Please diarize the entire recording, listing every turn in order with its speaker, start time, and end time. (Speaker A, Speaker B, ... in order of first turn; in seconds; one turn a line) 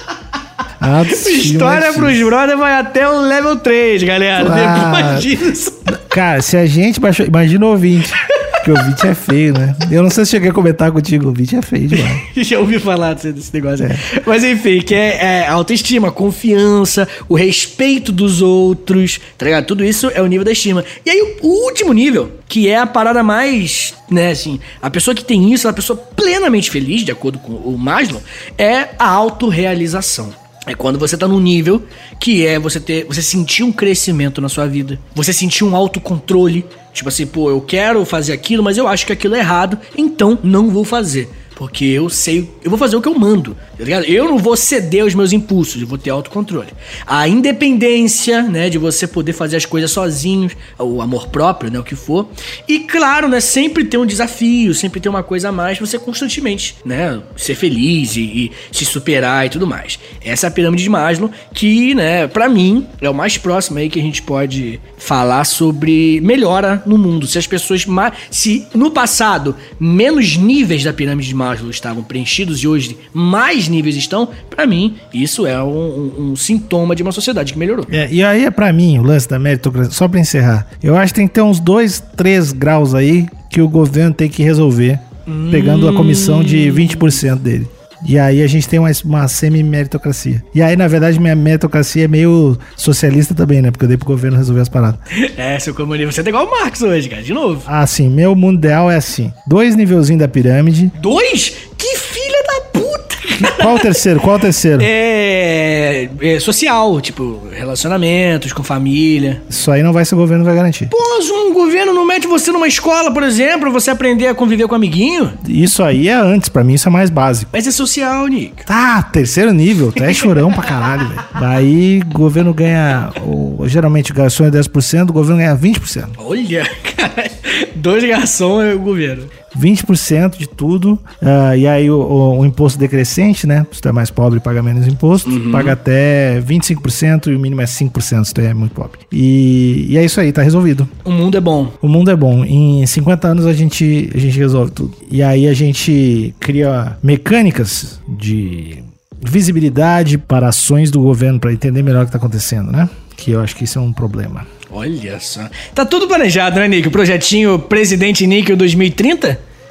Speaker A: 0.8-2.3
Speaker B: 1.1-5.8
Speaker A: 4.4-5.3
Speaker A: 5.9-12.2
Speaker B: 11.9-77.9
Speaker A: 13.8-14.1
Speaker A: 77.9-95.0
Speaker B: 85.3-87.2
Speaker B: 95.1-97.7
Speaker A: 97.7-100.9
Speaker B: 101.0-104.0
Speaker A: 103.4-104.9
Speaker B: 104.8-109.4
Speaker A: 109.5-110.9
Speaker B: 110.9-115.4
Speaker A: 115.4-117.5
Speaker B: 117.5-118.7
Speaker A: 118.7-126.1
Speaker B: 126.2-129.3
Speaker A: 129.5-140.9
Speaker B: 135.2-135.8
Speaker B: 141.1-141.8
Speaker A: 141.8-154.5
Speaker B: 154.7-159.4